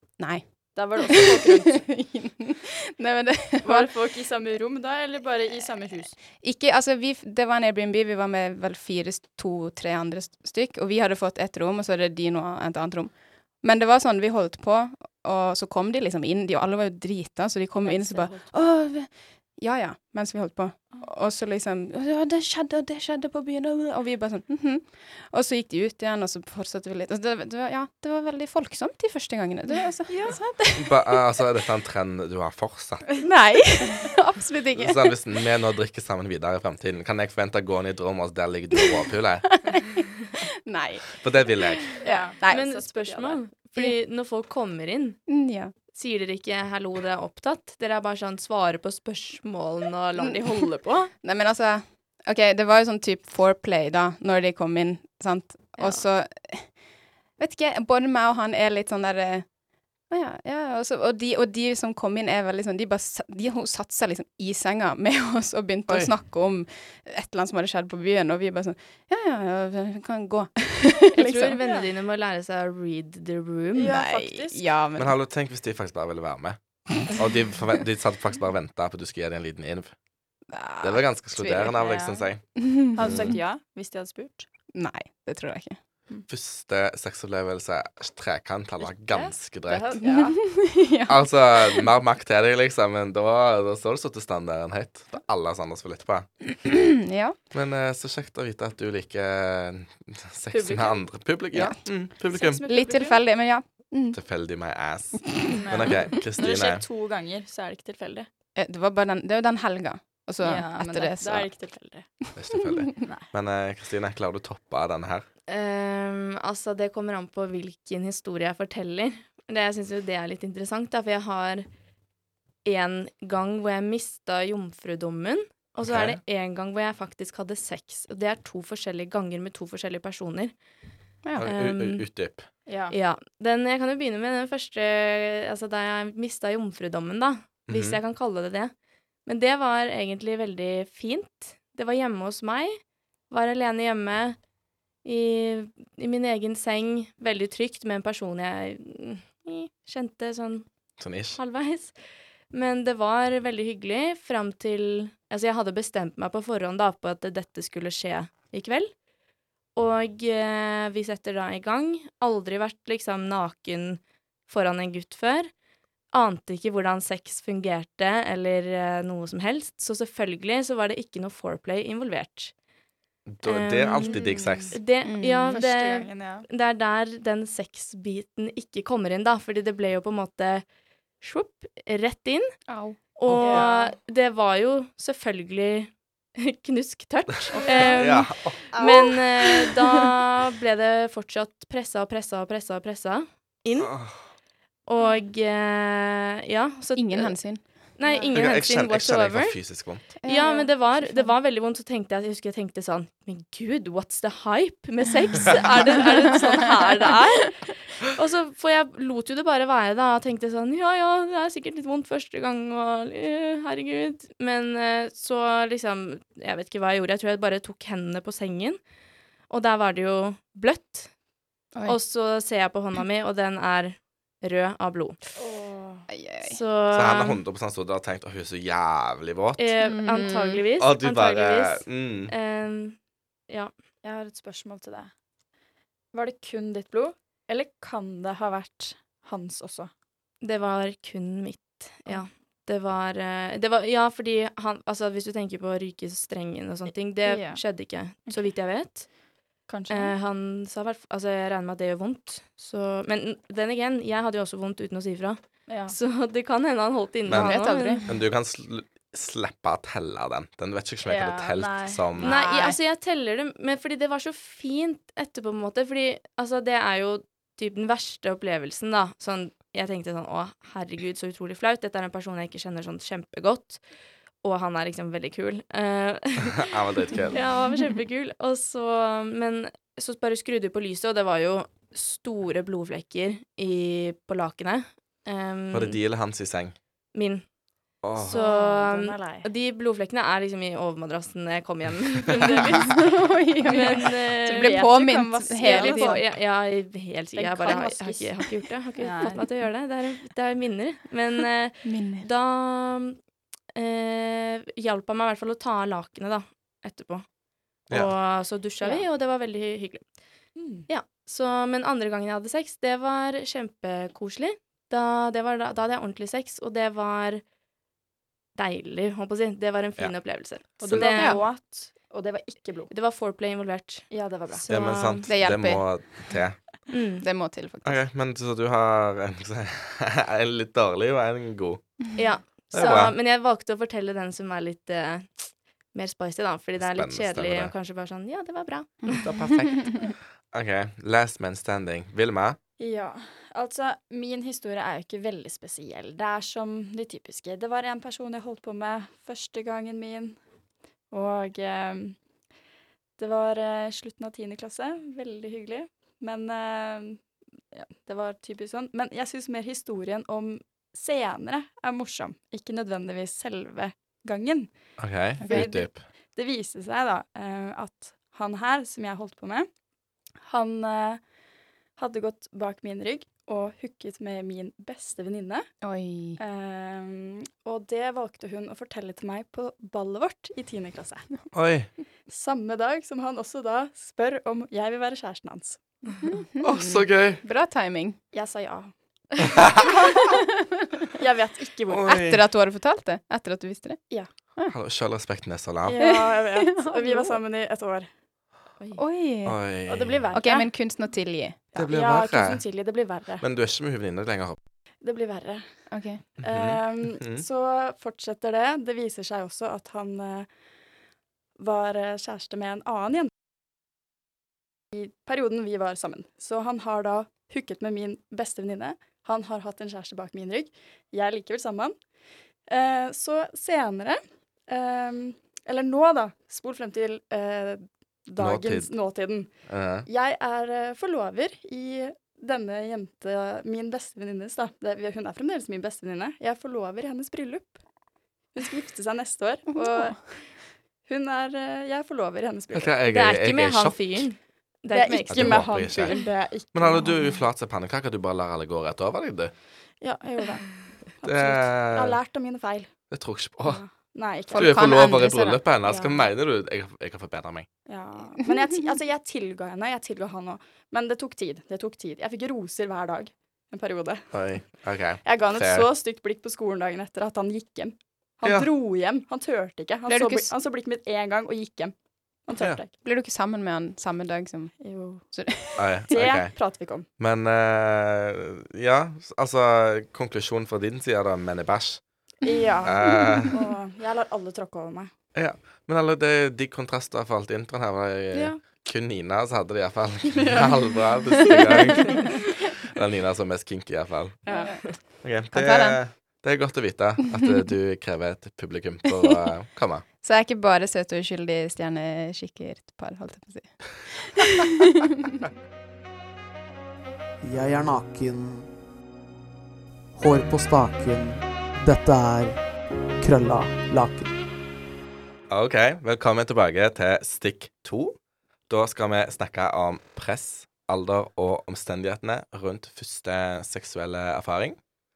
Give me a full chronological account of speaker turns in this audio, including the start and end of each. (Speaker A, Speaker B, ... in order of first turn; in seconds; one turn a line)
Speaker A: 0.2-0.5
Speaker B: 0.7-1.8
Speaker A: 1.0-3.9
Speaker B: 3.6-6.2
Speaker A: 6.4-31.2
Speaker B: 17.8-18.5
Speaker B: 30.1-30.4
Speaker C: 30.8-33.0
Speaker A: 33.2-35.2
Speaker C: 34.8-39.6
Speaker A: 39.5-42.8
Speaker C: 41.2-42.0
Speaker B: 42.0-43.4
Speaker D: 42.4-45.2
Speaker A: 45.3-45.7
Speaker D: 45.9-51.1
Speaker A: 50.2-50.4
Speaker A: 51.1-56.7
Speaker A: 57.4-59.5
Speaker A: 60.1-71.6
Speaker C: 65.9-66.1
Speaker D: 71.1-74.0
Speaker B: 71.6-71.9
Speaker B: 73.7-74.6
Speaker A: 73.8-75.1
Speaker C: 75.0-79.9
Speaker A: 80.5-81.8
Speaker C: 80.8-82.4
Speaker B: 81.8-82.3
Speaker A: 82.5-83.3
Speaker B: 82.9-84.5
Speaker C: 83.0-83.3
Speaker A: 84.7-85.8
Speaker C: 86.3-90.0
Speaker B: 88.8-90.4
Speaker A: 90.0-91.9
Speaker C: 91.1-96.3
Speaker A: 96.6-97.4
Speaker C: 97.5-102.6
Speaker B: 100.5-101.0
Speaker A: 101.5-101.8
Speaker B: 102.3-103.2
Speaker A: 102.6-104.2
Speaker C: 104.1-106.8
Speaker B: 105.5-108.3
Speaker A: 108.5-111.5
Speaker B: 110.4-112.1
Speaker C: 112.3-115.2
Speaker D: 115.5-121.7
Speaker D: 122.6-130.5
Speaker C: 125.8-126.2
Speaker C: 131.4-132.5
Speaker D: 131.4-132.0
Speaker B: 132.7-132.9
Speaker D: 132.9-138.7
Speaker C: 137.7-138.0
Speaker D: 139.2-144.4
Speaker D: 145.0-150.7
Speaker C: 151.0-151.4
Speaker D: 151.3-151.9
Speaker D: 152.5-158.9
Speaker D: 159.7-165.5
Speaker D: 166.1-172.5
Speaker C: 173.3-174.8
Speaker D: 173.4-174.2
Speaker B: 174.1-174.8
Speaker D: 174.7-180.6
Speaker A: 175.0-175.6
Speaker B: 175.5-176.4
Speaker D: 181.2-182.5
Speaker A: 182.7-182.9
Speaker D: 183.2-193.9
Speaker C: 183.3-183.6
Speaker B: 183.4-183.9
Speaker B: 187.5-188.2
Speaker C: 187.9-188.7
Speaker B: 188.7-189.1
Speaker C: 193.8-194.2
Speaker D: 194.9-197.4
Speaker A: 196.9-197.6
Speaker D: 198.0-199.6
Speaker B: 198.0-198.3
Speaker C: 198.3-200.0
Speaker A: 200.2-201.3
Speaker D: 200.2-218.8
Speaker B: 200.4-200.7
Speaker D: 219.5-221.1
Speaker D: 221.8-225.2
Speaker B: 225.4-226.1
Speaker A: 226.1-226.6
Speaker D: 226.4-227.4
Speaker C: 226.9-229.7
Speaker D: 229.6-233.0
Speaker A: 229.8-230.6
Speaker C: 230.8-232.3
Speaker B: 234.0-235.1
Speaker B: 236.1-239.9
Speaker D: 240.4-249.1
Speaker B: 247.2-247.6
Speaker B: 249.7-250.1
Speaker D: 249.9-258.0
Speaker B: 255.7-255.9
Speaker C: 257.3-262.4
Speaker A: 257.3-258.1
Speaker B: 261.0-262.4
Speaker D: 262.2-273.8
Speaker A: 262.2-262.7
Speaker D: 274.4-276.7
Speaker C: 276.4-277.4
Speaker D: 277.3-286.0
Speaker C: 285.7-286.7
Speaker D: 287.1-287.4
Speaker C: 288.0-288.4
Speaker D: 288.2-293.0
Speaker B: 288.2-289.5
Speaker A: 292.8-296.2
Speaker D: 293.6-294.8
Speaker B: 293.7-296.2
Speaker D: 295.6-303.2
Speaker B: 297.3-299.4
Speaker A: 301.8-302.2
Speaker D: 303.7-307.2
Speaker D: 307.9-310.1
Speaker B: 310.6-310.9
Speaker D: 310.9-317.4
Speaker D: 318.6-321.4
Speaker B: 320.8-322.9
Speaker A: 321.0-321.4
Speaker D: 322.9-324.1
Speaker B: 324.1-324.6
Speaker D: 324.6-325.3
Speaker C: 324.7-326.8
Speaker A: 325.3-325.9
Speaker D: 326.9-327.2
Speaker A: 327.2-328.0
Speaker C: 327.8-331.8
Speaker D: 332.1-339.3
Speaker C: 332.7-333.1
Speaker B: 332.7-333.0
Speaker C: 336.8-337.7
Speaker A: 339.1-340.1
Speaker C: 339.2-342.6
Speaker B: 342.8-350.4
Speaker B: 351.1-352.2
Speaker B: 353.2-364.7
Speaker C: 365.0-366.0
Speaker A: 365.4-365.7
Speaker B: 365.4-369.7
Speaker B: 370.4-371.2
Speaker B: 372.0-375.7
Speaker A: 375.8-376.4
Speaker B: 376.4-381.3
Speaker C: 381.5-381.9
Speaker B: 382.3-385.8
Speaker A: 386.2-388.2
Speaker C: 386.6-387.4
Speaker B: 388.3-388.9
Speaker B: 389.5-390.2
Speaker A: 390.1-391.0
Speaker B: 391.1-392.1
Speaker C: 391.9-392.4
Speaker A: 392.1-394.0
Speaker C: 394.7-396.0
Speaker B: 395.8-398.1
Speaker A: 396.0-397.4
Speaker A: 398.9-399.6
Speaker C: 399.4-400.2
Speaker B: 399.9-400.7
Speaker A: 400.3-401.8
Speaker C: 401.7-402.6
Speaker B: 401.8-403.4
Speaker C: 403.4-404.6
Speaker B: 405.0-405.6
Speaker A: 405.9-406.2
Speaker B: 406.4-410.5
Speaker C: 406.4-407.4
Speaker B: 411.6-413.3
Speaker B: 414.9-421.9
Speaker B: 422.7-429.5
Speaker C: 428.4-428.9
Speaker C: 429.7-430.1
Speaker B: 430.1-437.8
Speaker B: 438.5-440.4
Speaker A: 439.7-440.2
Speaker B: 441.0-442.9
Speaker C: 442.7-444.2
Speaker D: 443.1-446.2
Speaker B: 444.9-447.2
Speaker C: 445.3-449.5
Speaker B: 450.0-452.9
Speaker C: 451.2-452.2
Speaker C: 453.1-453.8
Speaker B: 453.6-454.8
Speaker A: 454.5-455.6
Speaker C: 454.5-457.7
Speaker B: 455.9-456.2
Speaker B: 457.9-464.4
Speaker C: 464.3-465.9
Speaker B: 465.2-471.9
Speaker C: 468.4-468.7
Speaker A: 470.1-470.5
Speaker B: 472.4-472.9
Speaker A: 473.0-474.7
Speaker B: 474.8-475.2
Speaker A: 475.3-476.0
Speaker C: 475.8-476.6
Speaker B: 476.1-477.1
Speaker C: 477.2-482.0
Speaker B: 482.4-485.1
Speaker C: 482.8-483.5
Speaker A: 483.2-483.4
Speaker C: 485.3-494.4
Speaker B: 490.3-490.8
Speaker B: 494.4-494.8
Speaker C: 495.2-500.0
Speaker A: 495.5-496.0
Speaker A: 500.2-505.4
Speaker E: 507.4-508.7
Speaker E: 510.1-512.6
Speaker E: 513.2-514.3
Speaker C: 515.5-518.1
Speaker C: 518.7-524.8